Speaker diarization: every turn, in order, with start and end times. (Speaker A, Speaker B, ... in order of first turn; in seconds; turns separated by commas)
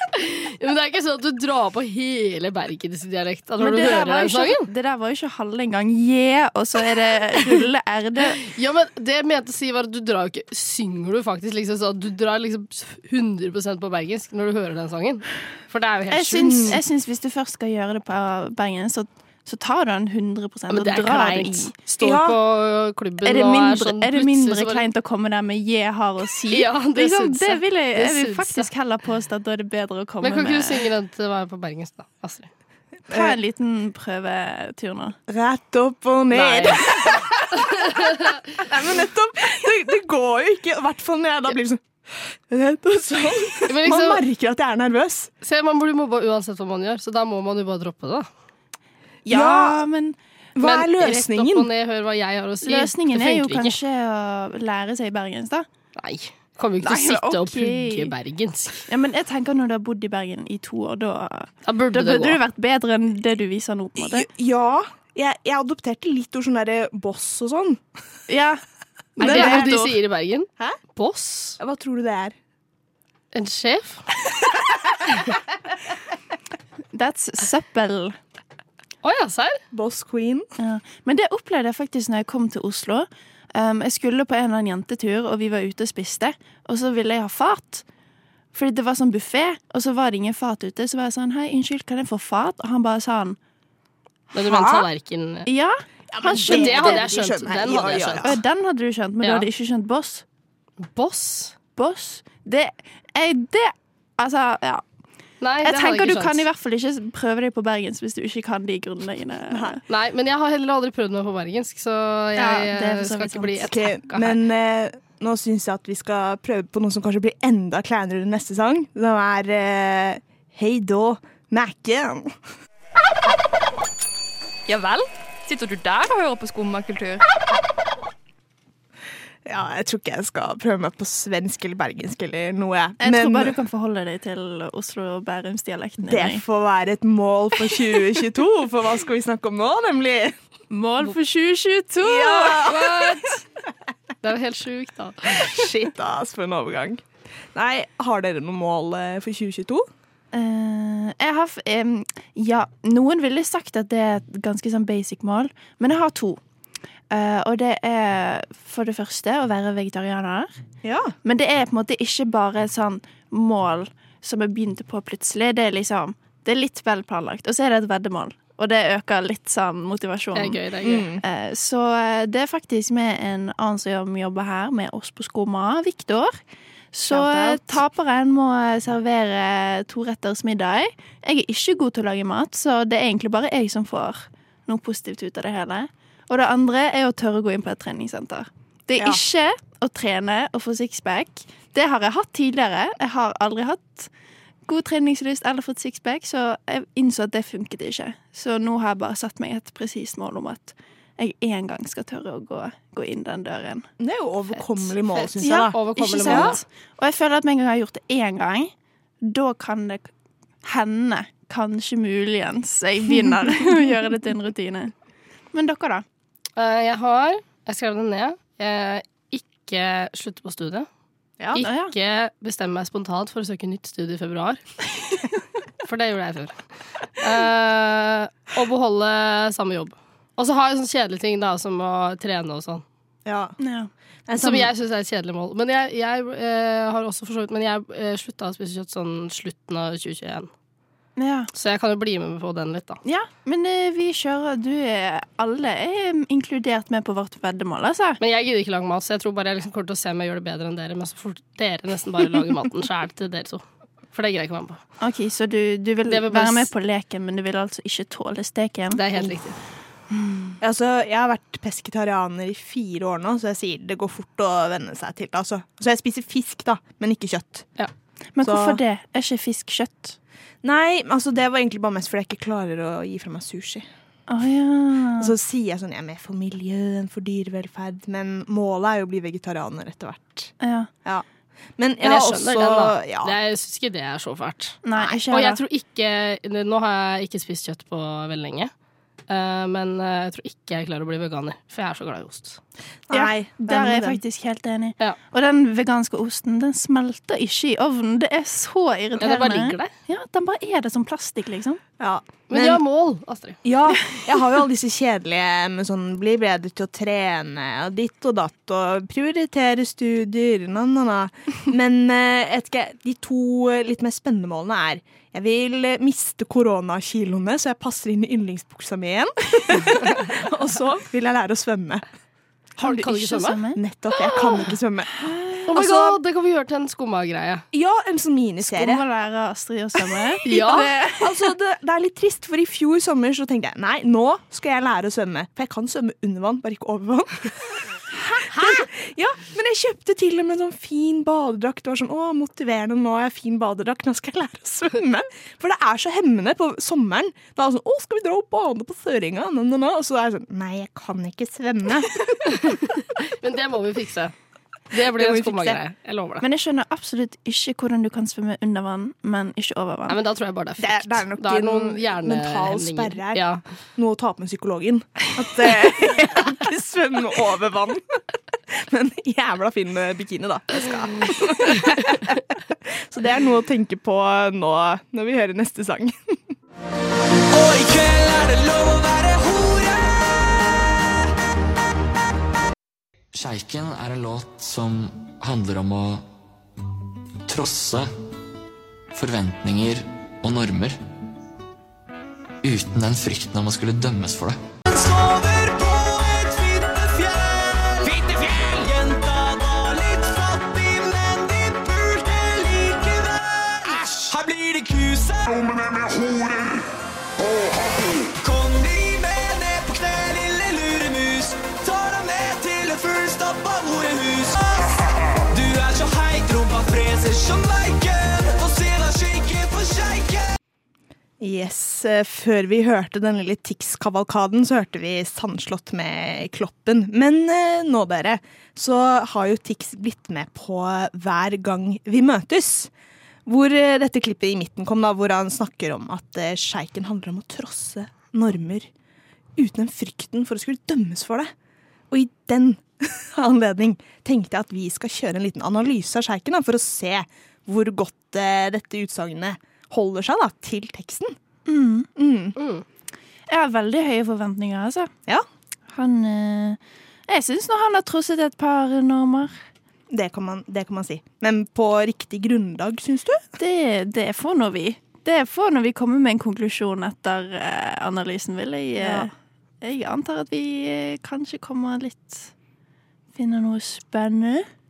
Speaker A: 0.1-4.7, Speaker B: 3.6-8.4, Speaker A: 8.4-16.8, Speaker B: 16.1-21.7, Speaker C: 16.4-16.8, Speaker A: 20.7-24.9, Speaker C: 22.0-22.4, Speaker B: 23.2-30.8, Speaker A: 26.5-28.7, Speaker A: 30.2-32.5, Speaker C: 33.1-33.4, Speaker B: 33.1-35.2, Speaker C: 35.3-38.0, Speaker A: 36.3-38.4, Speaker C: 38.5-45.3, Speaker A: 43.7-44.2, Speaker A: 45.4-48.3, Speaker C: 49.2-49.8, Speaker B: 49.3-50.2, Speaker C: 50.5-51.7, Speaker A: 50.6-53.8, Speaker B: 52.6-55.7, Speaker A: 56.0-58.9, Speaker B: 56.8-58.1, Speaker B: 58.9-64.3, Speaker A: 61.6-62.4, Speaker C: 64.0-67.8, Speaker B: 68.3-68.6, Speaker B: 69.2-70.0, Speaker A: 69.2-71.6, Speaker C: 69.2-69.7, Speaker C: 71.6-72.3, Speaker A: 73.3-74.0, Speaker B: 76.9-78.2, Speaker A: 79.0-79.6, Speaker C: 79.7-80.5, Speaker B: 80.6-87.8, Speaker B: 88.5-93.4, Speaker A: 94.3-95.5, Speaker B: 94.4-94.8, Speaker B: 95.5-97.1, Speaker C: 96.1-98.4, Speaker A: 96.4-98.3, Speaker B: 98.2-100.2, Speaker A: 99.2-99.5, Speaker A: 100.8-101.5, Speaker B: 101.8-104.8, Speaker A: 105.4-106.4, Speaker B: 105.6-109.8, Speaker C: 109.5-109.8, Speaker A: 109.9-114.4, Speaker B: 112.3-113.7, Speaker C: 113.7-122.3, Speaker D: 124.7-127.2, Speaker C: 129.4-133.6, Speaker B: 133.0-136.4, Speaker C: 136.0-140.3, Speaker B: 140.7-143.1, Speaker C: 142.0-143.1, Speaker A: 142.6-143.4, Speaker A: 144.2-145.5, Speaker C: 145.3-149.8, Speaker B: 150.3-156.4, Speaker B: 157.1-160.5, Speaker C: 160.8-161.1, Speaker B: 161.2-170.6, Speaker A: 170.3-171.1, Speaker C: 170.8-171.2, Speaker B: 171.2-176.4, Speaker B: 176.9-194.1, Speaker C: 177.1-177.8, Speaker B: 194.7-203.9, Speaker C: 204.0-206.6, Speaker A: 205.2-206.6, Speaker B: 205.4-210.1, Speaker B: 210.6-214.9, Speaker B: 215.5-216.0, Speaker A: 216.6-220.9, Speaker A: 221.5-224.6, Speaker B: 221.6-221.9, Speaker A: 225.8-226.6, Speaker A: 227.2-232.8, Speaker C: 233.2-233.5, Speaker B: 233.6-233.9, Speaker C: 234.3-234.7, Speaker A: 234.4-240.5, Speaker B: 241.2-241.5, Speaker A: 241.5-243.0, Speaker B: 243.0-248.2, Speaker A: 248.2-254.8, Speaker B: 255.0-259.0, Speaker A: 256.1-256.7, Speaker A: 258.9-259.6, Speaker B: 260.1-260.5, Speaker C: 260.6-267.7, Speaker B: 268.3-270.2, Speaker C: 268.4-268.8, Speaker C: 270.6-273.9, Speaker B: 274.3-275.3, Speaker C: 275.2-280.5, Speaker B: 280.6-280.9, Speaker C: 281.8-283.3, Speaker A: 282.0-288.7, Speaker B: 284.8-285.6, Speaker A: 289.3-292.6, Speaker C: 293.1-294.2, Speaker B: 293.1-301.8, Speaker A: 299.2-299.9, Speaker C: 302.0-302.8, Speaker A: 302.5-303.6, Speaker C: 303.6-322.0, Speaker A: 322.8-323.6, Speaker B: 322.8-323.8, Speaker C: 323.8-326.2, Speaker B: 325.1-325.7, Speaker A: 325.7-327.6, Speaker C: 327.7-329.0, Speaker B: 328.6-331.4, Speaker A: 330.4-330.9, Speaker C: 331.2-337.5, Speaker C: 338.4-352.7, Speaker A: 352.5-354.3, Speaker A: 354.9-356.4, Speaker C: 354.9-355.8, Speaker B: 356.4-360.2, Speaker A: 360.1-363.6, Speaker C: 360.8-363.4, Speaker C: 363.9-368.2, Speaker C: 368.7-376.2, Speaker E: 377.5-380.8, Speaker F: 383.3-386.3, Speaker F: 387.5-388.1, Speaker F: 389.1-391.0, Speaker F: 392.6-394.6, Speaker E: 394.9-405.9, Speaker E: 408.3-420.5, Speaker C: 421.4-432.9, Speaker C: 433.4-438.9, Speaker C: 439.6-441.5, Speaker C: 442.1-451.4, Speaker B: 451.6-452.1, Speaker C: 452.1-452.6, Speaker A: 452.6-452.8, Speaker B: 453.5-455.1, Speaker B: 455.9-459.6, Speaker C: 460.1-463.4, Speaker B: 463.6-472.5, Speaker C: 469.0-469.3, Speaker B: 473.3-474.7